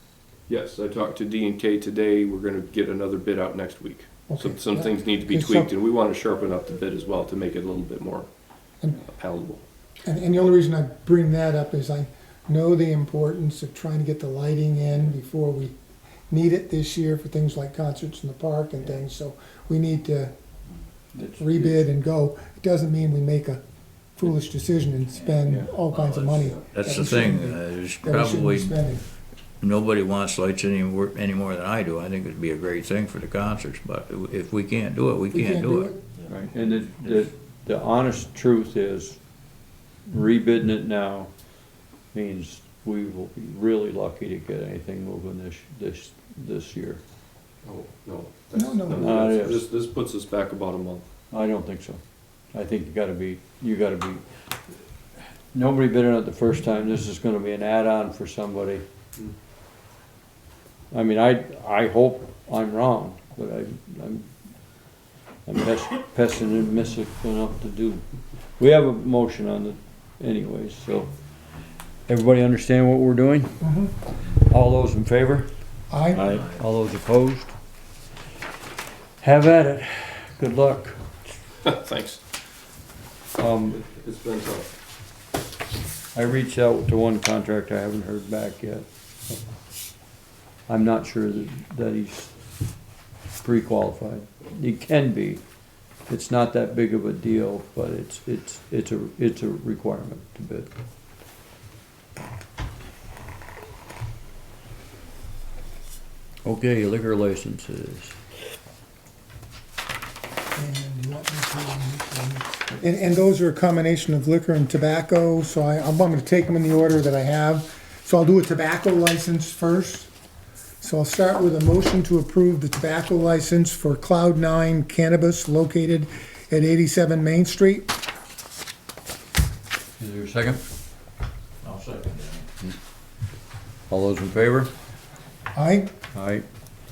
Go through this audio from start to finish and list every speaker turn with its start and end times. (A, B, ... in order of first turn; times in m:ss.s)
0:00.5-0:08.3 A
0:04.3-0:05.7 B
0:09.0-0:09.6 A
0:10.0-0:15.7 B
0:16.3-0:20.3 B
0:21.1-0:21.9 C
0:21.4-0:23.6 B
0:24.2-0:29.0 B
0:25.2-0:28.8 D
0:29.6-0:35.9 D
0:35.3-0:36.0 B
0:36.3-0:39.2 C
0:40.1-0:41.3 C
0:42.1-0:47.0 C
0:47.6-0:51.1 A
0:48.5-0:49.4 B
0:49.0-0:49.7 C
0:51.3-0:52.0 C
0:52.5-0:54.2 C
0:55.5-0:58.8 C
1:00.9-1:04.3 C
1:05.4-1:08.0 C
1:08.6-1:11.1 C
1:12.1-1:13.6 C
1:13.6-1:13.9 B
1:14.4-1:15.5 C
1:15.9-1:16.2 B
1:16.1-1:17.5 C
1:16.2-1:16.6 D
1:19.2-1:21.0 C
1:21.6-1:22.2 A
1:23.4-1:23.8 C
1:23.7-1:24.7 A
1:26.1-1:28.8 C
1:30.7-1:32.3 C
1:33.4-1:35.4 C
1:36.1-1:40.7 C
1:46.4-1:48.2 C
1:50.5-2:00.1 B
2:00.8-2:07.9 B
2:10.0-2:10.6 C
2:11.6-2:12.5 D
2:13.9-2:14.7 C
2:15.5-2:15.9 B
2:16.1-2:16.4 C